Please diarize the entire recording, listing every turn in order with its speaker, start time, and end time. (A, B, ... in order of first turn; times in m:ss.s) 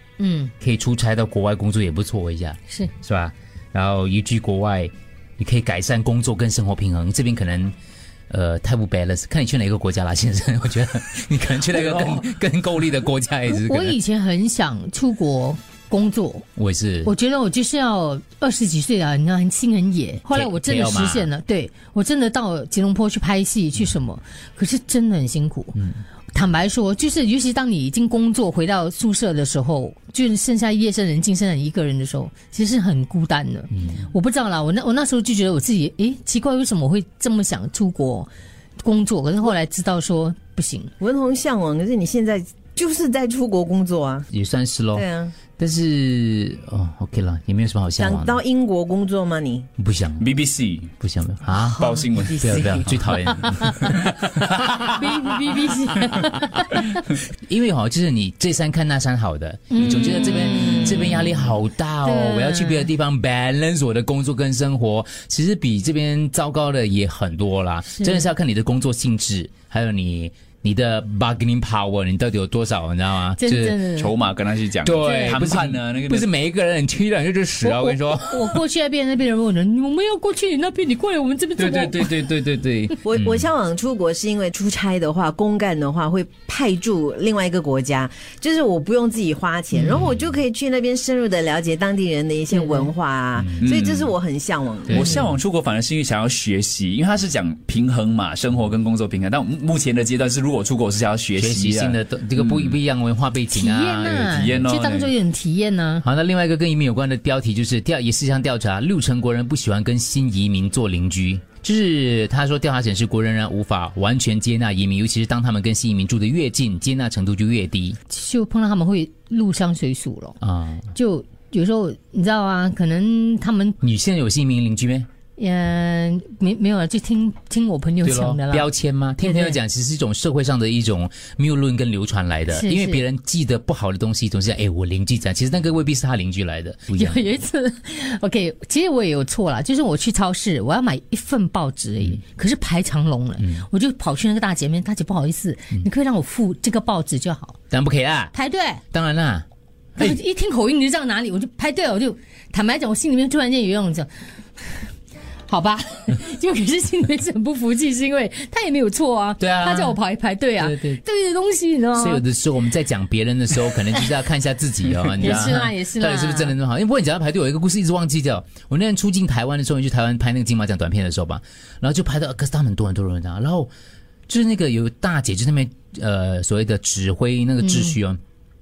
0:00.2-0:00.5 A
0:00.6-0:07.7 B
0:08.3-0:14.0 B
0:13.5-0:16.4 A
0:16.6-0:17.1 B
0:17.0-0:25.8 A
0:20.3-0:21.3 B
0:25.8-0:26.0 B
0:26.3-0:38.3 A
0:33.7-0:34.0 B
0:38.8-0:40.9 A
0:41.0-0:44.3 C
0:44.3-0:45.0 B
0:44.9-0:45.3 C
0:45.6-0:48.4 B
0:48.0-0:49.7 C
0:49.8-0:50.3 B
0:50.2-0:50.9 D
0:51.0-0:54.2 B
0:51.7-0:54.8 D
0:54.7-0:57.0 A
0:57.3-1:13.8 B
0:59.7-1:01.3 A
1:02.0-1:02.9 A
1:08.0-1:08.2 A
1:13.4-1:14.1 A
1:13.9-1:16.3 D
1:14.8-1:18.6 B
1:14.9-1:15.4 A
1:17.6-1:22.3 A
1:21.6-1:23.4 B
1:21.6-1:22.5 D
1:23.0-1:35.2 C
1:32.5-1:32.9 A
1:33.4-1:33.7 B
1:33.6-1:34.1 D
1:34.9-1:35.1 B
1:34.9-1:42.7 D
1:41.4-1:44.6 B
1:43.5-1:46.0 A
1:44.3-1:45.1 D
1:46.0-1:58.0 B
1:58.1-2:00.4 A
2:00.4-2:00.9 B
2:00.9-2:03.8 A
2:03.8-2:05.1 B
2:05.4-2:08.7 A
2:08.0-2:17.2 B
2:09.2-2:09.6 A
2:12.5-2:13.0 A
2:16.9-2:27.5 A
2:27.7-2:28.3 B
2:28.3-2:28.8 A
2:28.9-2:29.4 B
2:30.0-2:34.9 A
2:35.5-2:42.2 A
2:39.4-2:40.0 B
2:40.6-2:41.0 B
2:41.9-2:53.7 B
2:45.1-2:46.5 A
2:54.3-2:58.2 B
2:57.6-2:58.0 A